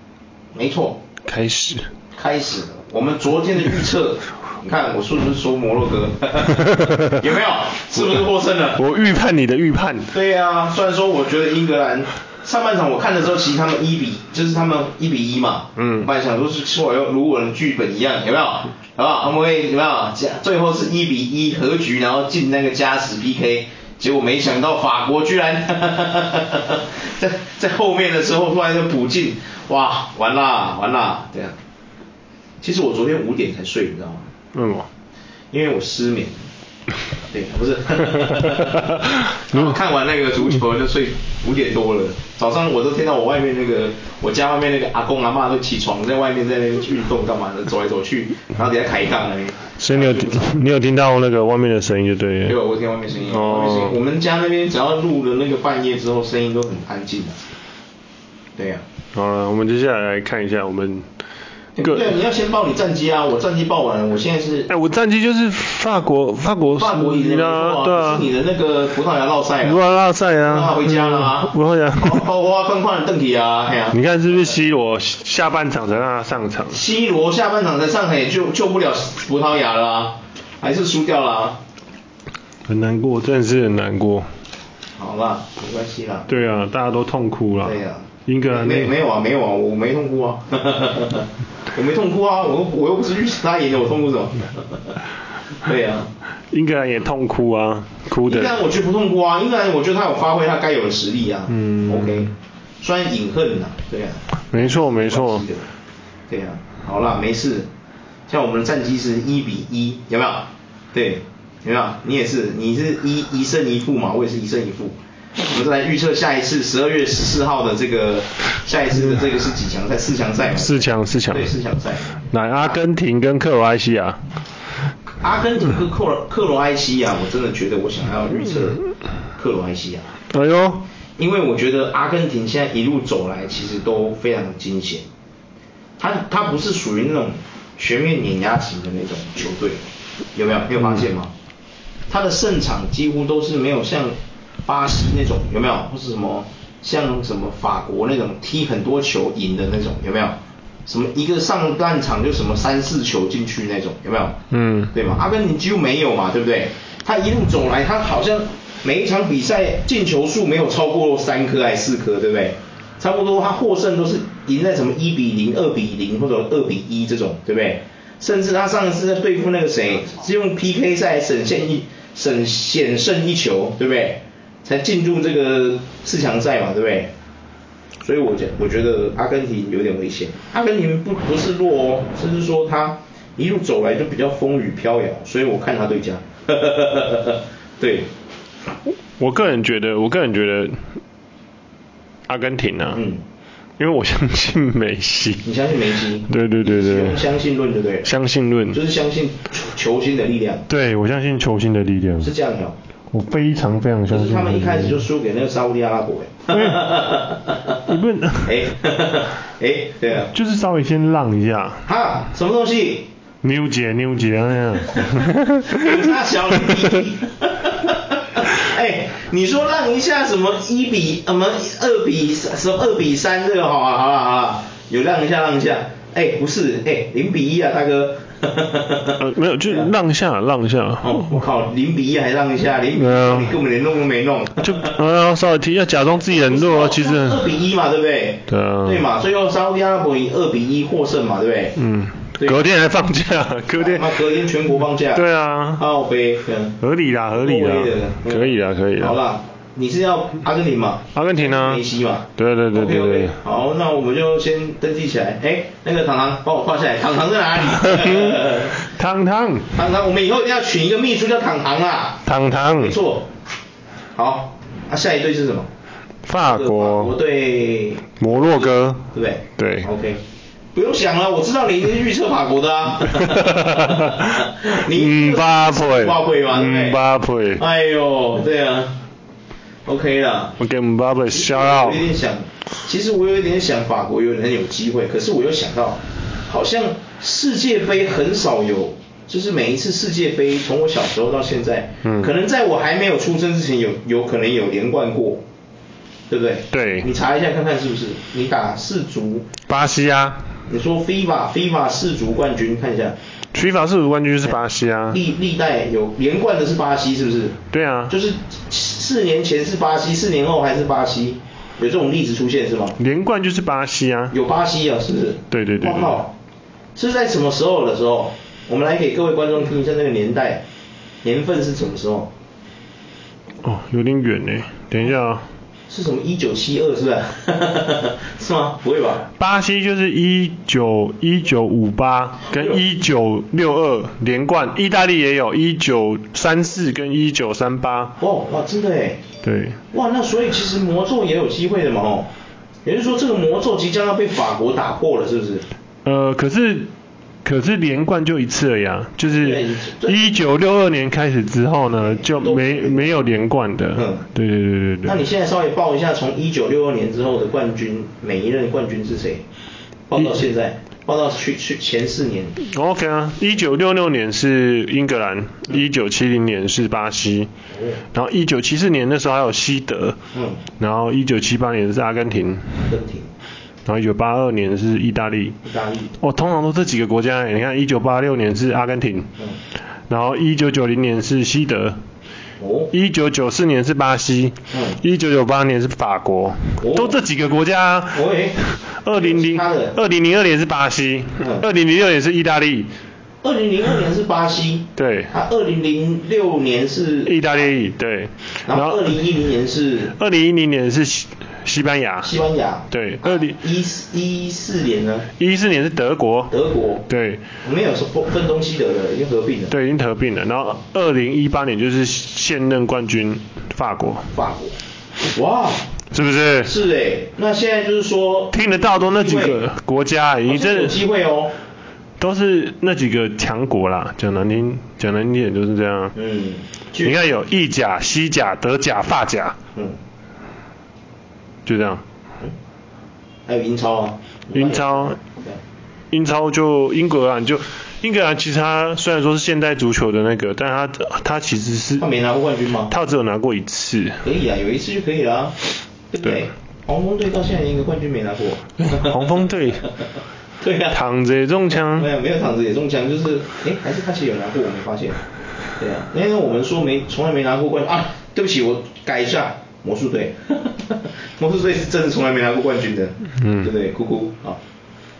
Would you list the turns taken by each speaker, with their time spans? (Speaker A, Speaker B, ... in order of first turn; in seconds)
Speaker A: 0.5-1.0, 2.1-8.8, 10.1-31.6, 32.6-34.2, 35.5-36.4, 37.3-50.5, 52.5-57.4, 58.6-58.8, 61.8-64.7, 66.7-69.8, 70.5-74.0, 76.7-81.6, 85.0-86.3, 87.6-95.0, 95.6-96.1, 98.2-105.7, 106.3-107.7, 108.3-122.8, 125.2-128.8, 129.4-130.1, 131.2-135.0, 136.0-139.8, 140.3-141.3, 142.1-154.4, 154.9-177.1, 178.0-188.1, 192.9-193.2, 195.4-198.1, 198.7-200.6, 202.2-202.8, 204.1-207.8, 208.4-210.3, 211.8-213.1, 215.7-229.2, 231.0-234.9, 236.2-241.8, 242.4-242.6, 243.8-245.2, 245.8-246.8, 247.3-258.7, 259.7-263.3, 264.1-265.7, 266.4-270.2, 270.7-277.0, 277.6-279.0, 279.9-280.6, 281.3-295.4, 296.3-299.5, 300.7-303.2, 305.1-307.6, 308.1-313.0, 314.3-316.3, 317.0-320.6, 321.2-322.3, 325.9-329.2, 332.5-332.8, 338.2-339.2, 339.9-342.3, 342.9-345.6, 349.3-350.2, 352.0-353.3, 353.9-354.3, 355.0-359.4, 360.1-362.6, 367.7-368.0, 370.3-370.6, 372.9-373.3, 375.6-376.2, 382.6-382.9, 384.7-385.0, 386.8-387.2, 388.1-390.0, 391.4-391.7, 393.4-397.8, 398.7-400.1, 402.2-405.3, 406.5-407.1, 407.6-409.7, 414.3-414.8, 415.3-415.9, 416.6-419.6, 420.5-421.5, 426.1-427.2, 433.5-435.6, 442.0-442.9, 444.2-445.6, 446.1-449.3, 450.6-451.0, 451.8-455.2, 455.8-464.6
Speaker B: 1.3-1.9, 6.5-7.2, 8.8-10.1, 15.8-16.1, 34.5-34.9, 49.8-52.6, 53.2-54.0, 59.1-61.1, 61.8-62.1, 64.7-68.3, 69.6-72.3, 73.9-76.8, 82.7-84.3, 86.3-88.9, 96.5-98.6, 101.5-102.3, 104.5-105.5, 120.6-121.5, 122.3-124.2, 130.3-130.8, 154.5-154.9, 189.2-190.8, 192.3-193.0, 193.8-195.5, 196.3-197.2, 198.1-198.8, 200.7-202.3, 203.1-205.0, 206.5-207.0, 207.9-208.6, 210.3-211.8, 213.4-215.9, 229.2-231.4, 232.9-233.6, 234.6-237.5, 238.5-239.0, 241.8-244.1, 245.1-245.8, 246.8-249.2, 251.1-251.8, 252.4-253.4, 257.7-259.8, 262.2-262.9, 266.2-267.1, 268.2-269.0, 269.6-269.9, 273.3-277.6, 280.6-282.1, 292.0-292.3, 296.7-297.1, 299.7-300.5, 303.5-305.2, 307.7-308.1, 313.0-314.4, 315.5-316.2, 323.6-325.5, 329.4-338.2, 339.4-339.8, 346.1-346.9, 347.4-355.1, 362.6-367.5, 368.1-370.2, 370.8-372.8, 373.9-375.6, 376.2-379.3, 380.1-382.0, 382.9-392.9, 395.0-395.3, 397.2-399.1, 400.1-402.3, 402.9-403.6, 405.4-406.5, 407.1-407.4, 409.7-414.3, 416.1-416.7, 418.5-421.0, 422.2-426.1, 427.0-429.6, 431.7-432.0, 434.5-435.2, 436.1-442.1, 442.9-444.2, 446.2-446.5, 448.8-449.9, 450.9-452.1, 463.4-463.7